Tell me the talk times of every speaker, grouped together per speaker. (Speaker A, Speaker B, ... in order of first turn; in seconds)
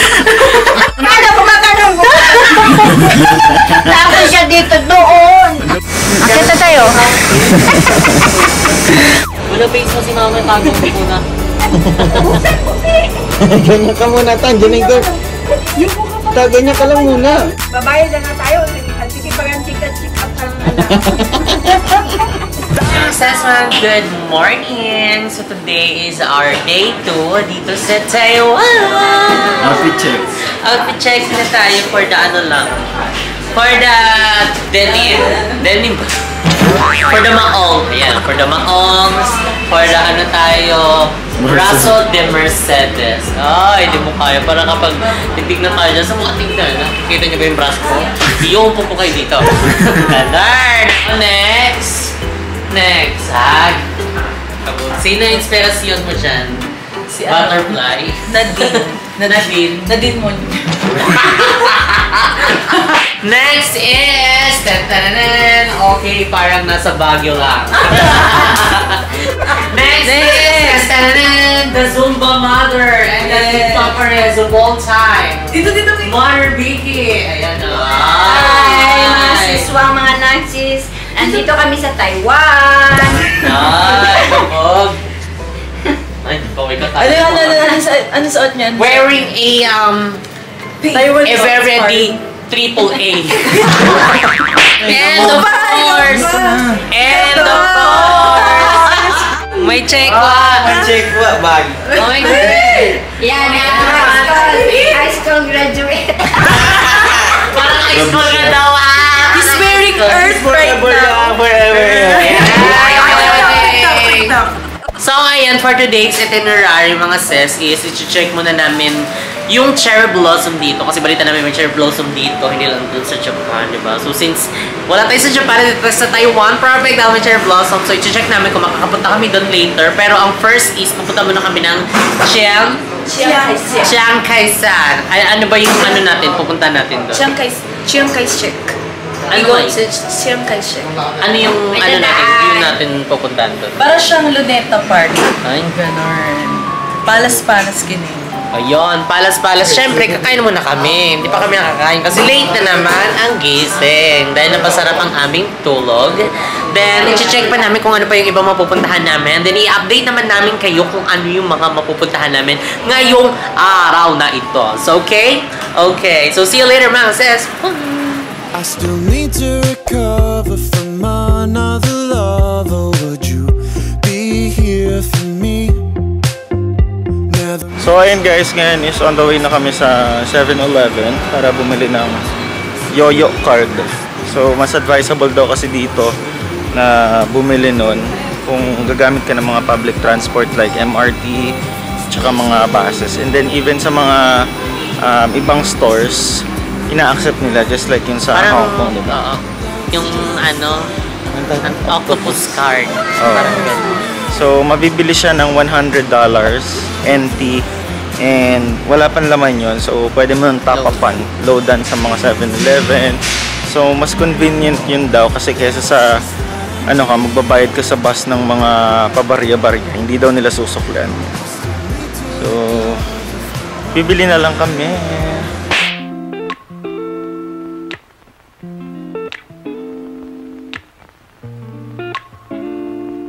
Speaker A: 0.7-5.7, 6.2-7.0, 17.7-21.3, 78.2-84.3, 103.2-107.2, 112.5-113.4, 141.8-142.8
Speaker B: 3.3-3.7, 7.3-8.4, 11.7-12.4, 13.4-15.1, 15.9-17.4, 20.7-22.2, 29.6-30.2, 41.4-42.0, 94.8-96.8, 100.1-102.7, 106.5-108.6, 110.0-112.7, 177.8-182.3, 182.9-186.1, 186.7-191.6, 192.1-194.4, 195.0-199.2, 201.3-202.6, 203.2-203.8, 204.3-207.7, 208.2-216.1, 216.9-221.3, 222.3-223.0, 223.9-225.5
Speaker C: 6.6-7.6, 9.3-11.2, 12.2-12.4, 22.9-29.8, 30.6-32.7, 33.5-36.1, 37.0-52.1, 52.7-53.9, 54.6-56.6, 57.3-59.9, 61.0-79.7, 83.4-85.0, 86.2-87.8, 88.8-90.2, 90.9-100.8, 101.9-105.0, 107.4-110.2, 112.2-114.4, 115.0-132.8, 133.8-137.3, 139.3-139.8, 141.2-143.8, 145.4-146.3, 147.1-147.4, 148.5-168.3, 198.3-200.9, 201.6-204.0, 210.7-211.0
Speaker D: 57.1-57.8, 58.3-59.1, 59.8-60.9, 70.0-70.9, 73.3-73.9, 75.5-76.1, 87.0-89.2, 90.8-92.2, 95.7-96.5, 97.8-98.3, 109.3-111.4, 112.8-114.5, 133.1-133.9, 137.1-138.8, 139.3-141.0, 143.8-145.3, 146.2-148.4
Speaker E: 168.5-175.8, 177.3-177.7